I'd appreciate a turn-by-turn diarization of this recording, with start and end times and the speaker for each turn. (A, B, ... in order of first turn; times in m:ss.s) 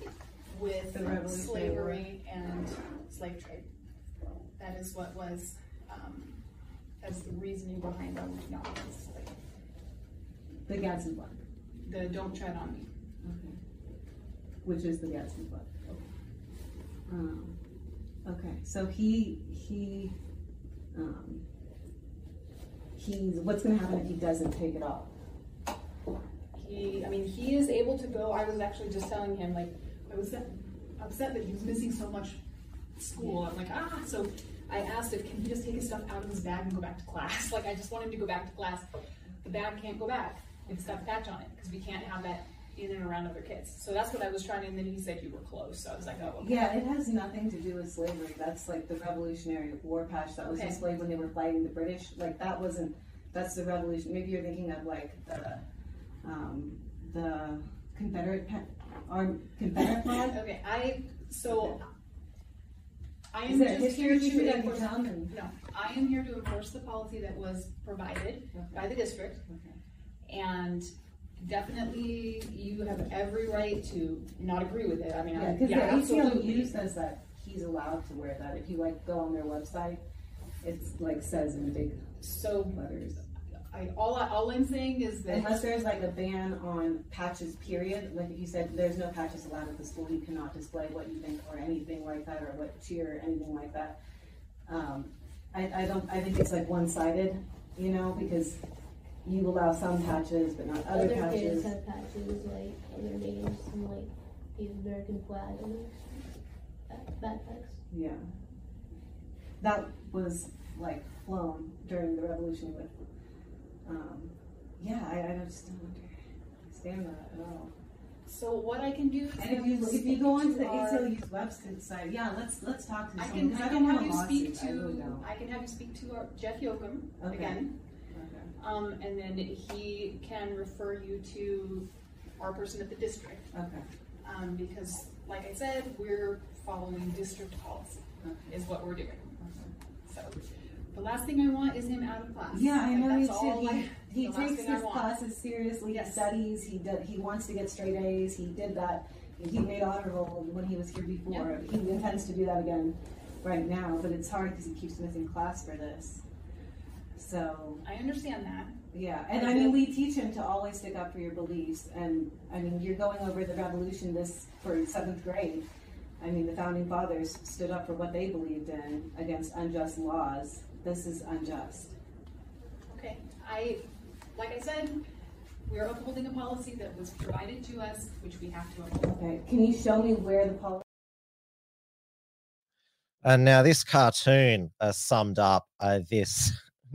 0:00.5-0:03.7 A
0:00.9-0:02.1 B
0:04.6-0:06.4 A
0:07.0-0:09.3 A
0:10.7-0:11.4 B
0:11.8-0:12.9 A
0:13.2-0:13.6 B
0:14.6-0:16.0 B
0:17.1-0:17.6 B
0:18.2-0:20.1 B
0:20.9-0:21.4 B
0:23.0-0:25.1 B
0:26.6-0:32.4 A
0:33.0-0:38.8 A
0:39.4-0:46.7 A
0:40.7-0:41.0 B
0:46.0-0:55.6 B
0:50.4-0:50.8 A
0:56.2-1:00.4 B
1:00.3-1:01.8 A
1:01.4-1:01.8 B
1:03.3-1:09.4 A
1:03.4-1:05.3 B
1:08.5-1:09.8 B
1:10.3-1:16.8 A
1:15.3-1:20.0 B
1:20.6-1:23.2 B
1:22.2-1:22.8 A
1:23.7-1:25.6 A
1:25.2-1:34.0 B
1:34.7-1:38.6 B
1:39.2-1:41.7 B
1:40.9-1:47.8 C
1:47.9-1:48.3 B
1:49.6-1:52.9 B
1:53.8-1:57.7 B
1:58.3-2:01.1 A
1:59.3-2:05.2 B
2:03.2-2:07.7 A
2:07.2-2:08.5 B
2:08.6-2:13.4 A
2:13.5-2:13.8 B
2:14.2-2:19.4 A
2:18.2-2:18.5 B
2:19.4-2:19.7 B
2:20.0-2:25.1 A
2:22.5-2:36.2 B
2:25.9-2:26.3 A
2:31.3-2:32.0 A
2:37.2-2:37.8 B
2:37.8-2:38.8 A
2:38.9-2:45.6 B
2:39.3-2:39.8 A
2:46.2-2:51.9 B
2:52.9-2:55.0 A
2:55.7-2:59.2 A
2:59.1-3:00.8 B
3:03.2-3:06.5 D